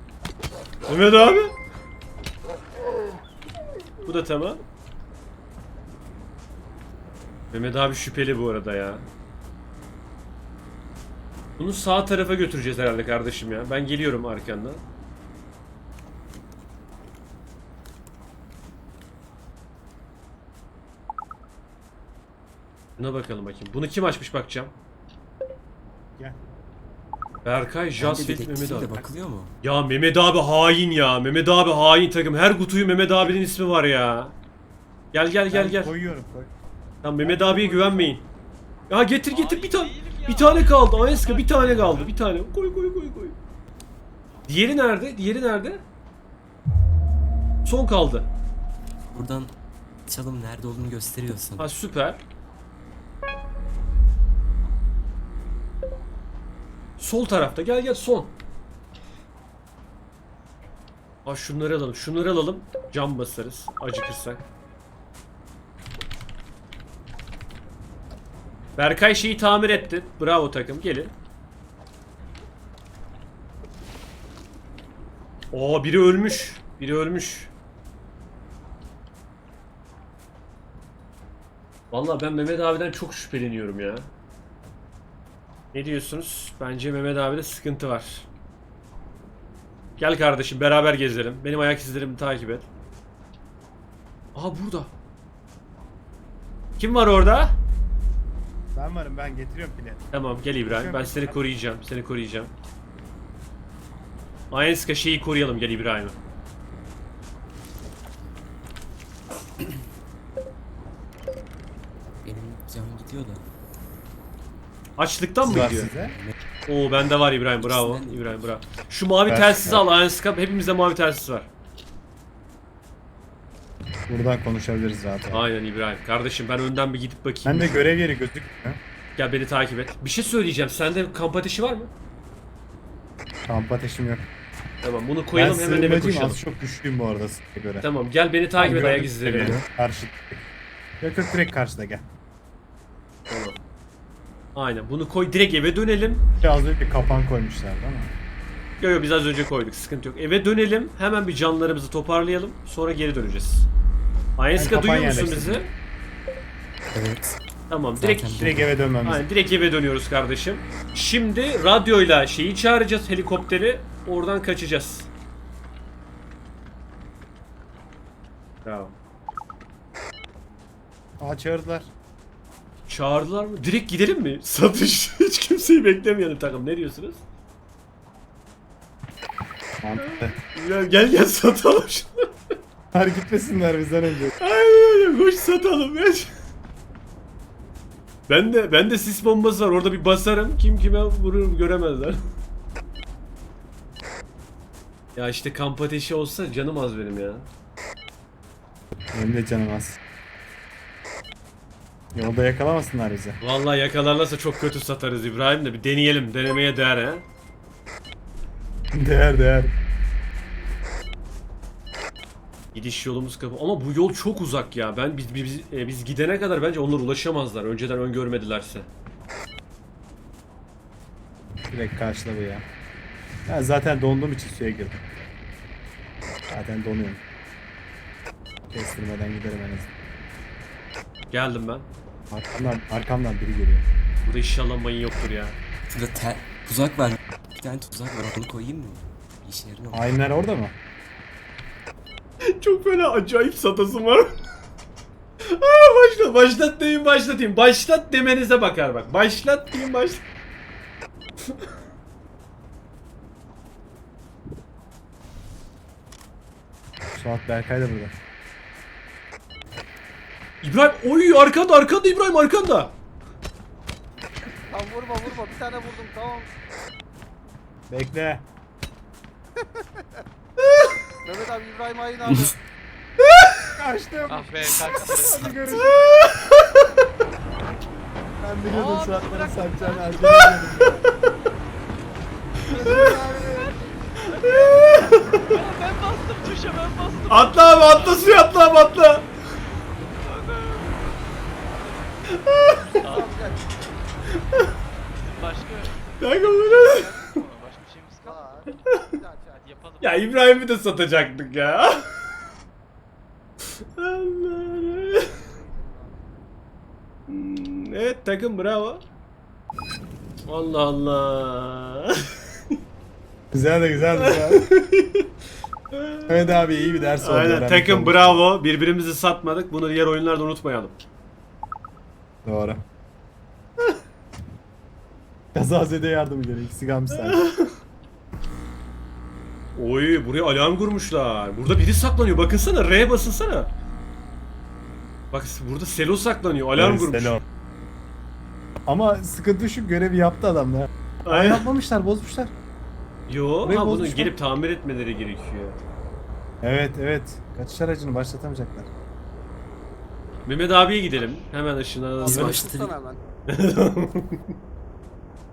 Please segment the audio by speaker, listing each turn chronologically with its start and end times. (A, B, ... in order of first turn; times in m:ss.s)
0:00.9-0:01.6 A
0:04.0-0:04.6 A
0:07.5-0:09.1 A
0:11.6-0:14.8 A
0:23.0-0:24.7 A
0:27.4-0:29.0 A
0:28.0-0:29.5 B
0:29.6-0:34.4 A
0:35.1-0:35.9 A
0:35.5-0:36.5 C
0:37.0-0:38.2 A
0:37.2-0:38.2 C
0:38.9-0:43.4 A
0:39.3-0:42.2 D
0:44.5-0:45.8 A
0:47.6-0:48.3 A
0:49.1-0:49.5 B
0:50.1-0:51.7 B
0:51.6-0:52.2 A
0:57.0-0:58.3 A
1:01.3-1:04.4 A
1:08.8-1:11.1 A
1:15.5-1:17.5 A
1:21.9-1:24.1 A
1:25.7-1:28.3 A
1:30.0-1:32.7 A
1:34.4-1:34.9 A
1:36.8-1:37.6 A
1:38.7-1:40.1 C
1:40.1-1:42.5 A
1:40.6-1:41.4 C
1:44.5-1:46.2 A
1:52.2-1:53.4 B
1:55.0-1:55.9 A
1:55.4-1:56.2 C
1:56.7-2:01.5 A
1:57.6-1:58.6 B
1:59.3-1:59.8 C
2:04.1-2:05.5 C
2:05.3-2:07.9 A
2:07.4-2:08.8 C
2:09.2-2:11.9 A
2:13.5-2:14.3 C
2:14.8-2:16.4 A
2:15.3-2:17.9 C
2:17.8-2:19.6 A
2:18.6-2:20.4 C
2:21.0-2:22.1 C
2:23.3-2:23.6 A
2:24.6-2:26.2 A
2:26.4-2:28.1 C
2:28.8-2:33.7 A
2:34.4-2:35.7 A
2:34.6-2:35.7 C
2:36.9-2:37.4 B
2:37.7-2:38.5 A
2:38.0-2:38.8 B
2:38.3-2:39.2 C
2:39.0-2:45.1 A
2:48.6-2:48.9 A
2:51.2-2:51.9 C
2:52.9-2:57.2 A
2:59.8-3:00.4 C
3:00.0-3:02.3 A
3:02.9-3:04.3 C
3:04.4-3:06.3 A
3:08.3-3:12.2 A
3:15.2-3:17.5 A
3:19.1-3:20.0 C
3:22.1-3:23.4 C
3:23.4-3:27.2 A
3:28.9-3:29.7 C
3:32.7-3:38.9 A
3:41.7-3:42.6 C
3:43.5-3:45.0 C
3:46.5-3:47.2 C
3:48.7-3:49.9 C
3:51.3-3:51.9 A
3:52.3-3:53.9 C
3:54.2-3:55.6 A
3:55.9-4:00.0 B
3:59.9-4:00.7 C
4:02.5-4:04.4 A
4:05.4-4:10.2 A
4:17.2-4:18.1 C
4:20.6-4:22.9 A
4:24.7-4:26.5 E
4:27.9-4:28.5 C
4:29.6-4:30.2 E
4:31.2-4:32.6 E
4:33.8-4:36.2 C
4:34.3-4:36.0 D
4:35.9-4:36.6 A
4:38.4-4:41.1 C
4:38.7-4:40.6 D
4:42.7-4:43.7 C
4:42.7-4:43.2 A
4:42.9-4:43.7 D
4:44.3-4:45.5 A
4:44.4-4:44.8 D
4:45.5-4:48.4 D
4:47.3-4:49.2 A
4:50.2-4:51.0 D
4:52.5-4:53.0 A
4:53.0-4:53.4 D
4:53.0-4:53.7 E
4:55.2-4:58.6 D
4:56.2-4:57.4 A
4:58.2-4:59.9 E
4:59.6-5:00.3 D
5:00.0-5:02.1 A
5:04.0-5:05.3 A
5:05.1-5:06.3 E
5:07.3-5:09.0 A
5:10.5-5:12.4 A
5:13.5-5:14.7 C
5:14.1-5:15.3 A
5:15.9-5:16.6 A
5:16.3-5:18.4 C
5:17.2-5:21.0 A
5:22.4-5:22.8 C
5:25.5-5:27.4 C
5:27.1-5:27.7 A
5:29.8-5:33.7 A
5:35.3-5:37.4 A
5:36.8-5:37.4 C
5:38.9-5:42.5 C
5:41.2-5:41.7 A
5:43.3-5:45.8 A
5:43.6-5:44.3 C
5:46.6-5:48.9 C
5:50.5-5:52.7 A
5:51.1-5:51.5 D
5:52.2-5:53.2 E
5:52.3-5:53.0 B
5:53.5-5:54.5 A